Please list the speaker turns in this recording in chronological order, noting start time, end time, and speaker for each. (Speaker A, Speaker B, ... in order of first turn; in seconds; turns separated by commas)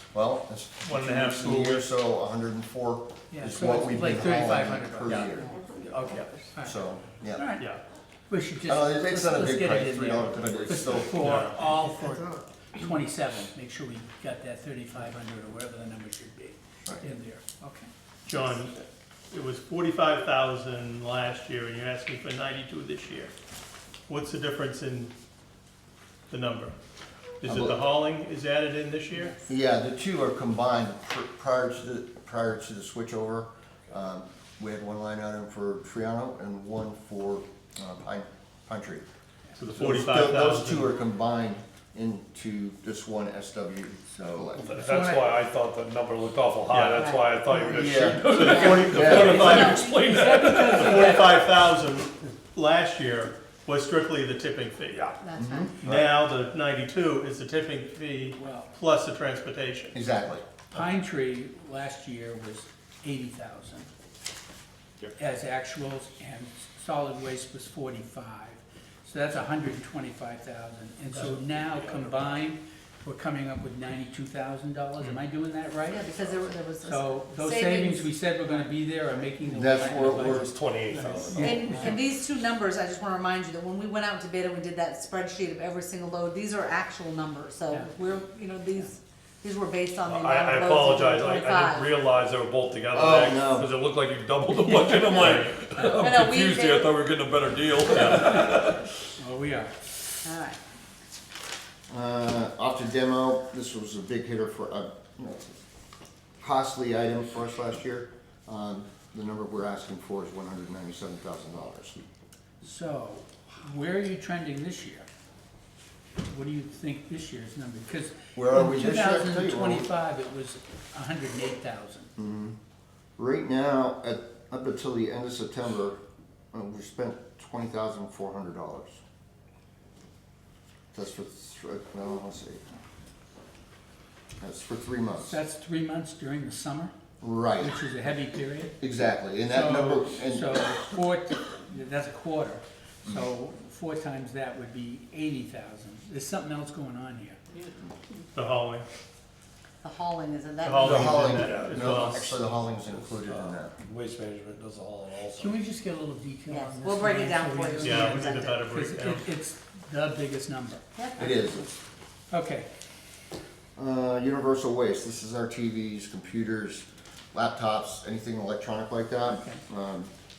Speaker A: 0.1-5.5, Speaker B: 0.8-1.9, Speaker C: 3.3-5.9, Speaker D: 5.4-6.2, Speaker C: 6.5-6.8, Speaker A: 6.6-7.7, Speaker C: 7.3-7.7, Speaker C: 8.3-17.9, Speaker A: 8.6-11.4, Speaker B: 11.1-11.6, Speaker B: 18.2-23.3, Speaker B: 24.1-25.1, Speaker B: 26.3-26.8, Speaker B: 27.4-29.4, Speaker A: 27.4-27.8, Speaker A: 29.5-39.0, Speaker B: 39.5-40.9, Speaker A: 39.8-44.7, Speaker E: 44.6-51.2, Speaker C: 44.7-45.3, Speaker B: 46.7-47.1, Speaker D: 47.0-50.0, Speaker A: 47.7-49.7, Speaker B: 48.1-49.8, Speaker C: 49.3-51.4, Speaker B: 50.6-55.2, Speaker D: 55.2-55.7, Speaker A: 55.4-56.1, Speaker B: 55.8-60.0, Speaker C: 58.4-58.7, Speaker A: 59.9-60.5, Speaker C: 60.7-63.9, Speaker C: 65.2-76.1, Speaker E: 71.5-72.2, Speaker D: 75.9-78.7, Speaker C: 76.8-82.0, Speaker A: 79.4-80.5, Speaker E: 80.1-82.0, Speaker D: 81.3-91.9, Speaker E: 90.0-99.1, Speaker A: 92.9-93.8, Speaker C: 94.6-95.8, Speaker B: 95.1-95.5, Speaker D: 96.0-97.0, Speaker B: 97.9-98.2, Speaker C: 99.2-99.9, Speaker D: 100.2-100.6, Speaker A: 101.9-105.6, Speaker A: 106.4-112.0, Speaker C: 112.6-115.0, Speaker C: 116.2-122.1, Speaker A: 118.3-119.9, Speaker A: 122.2-122.6, Speaker A: 123.2-126.0, Speaker A: 126.5-129.0, Speaker A: 130.9-132.7, Speaker A: 134.4-135.4, Speaker C: 135.2-136.9, Speaker A: 137.2-137.8, Speaker C: 137.6-138.8, Speaker A: 138.8-140.6, Speaker C: 139.5-147.4, Speaker B: 148.3-148.8, Speaker D: 149.8-151.3, Speaker B: 150.6-152.4, Speaker A: 150.8-153.7, Speaker E: 150.8-155.6, Speaker C: 155.3-160.8, Speaker D: 156.5-158.6, Speaker B: 157.8-159.3, Speaker D: 160.9-161.5, Speaker A: 161.2-161.8, Speaker C: 162.3-162.7, Speaker A: 163.8-170.1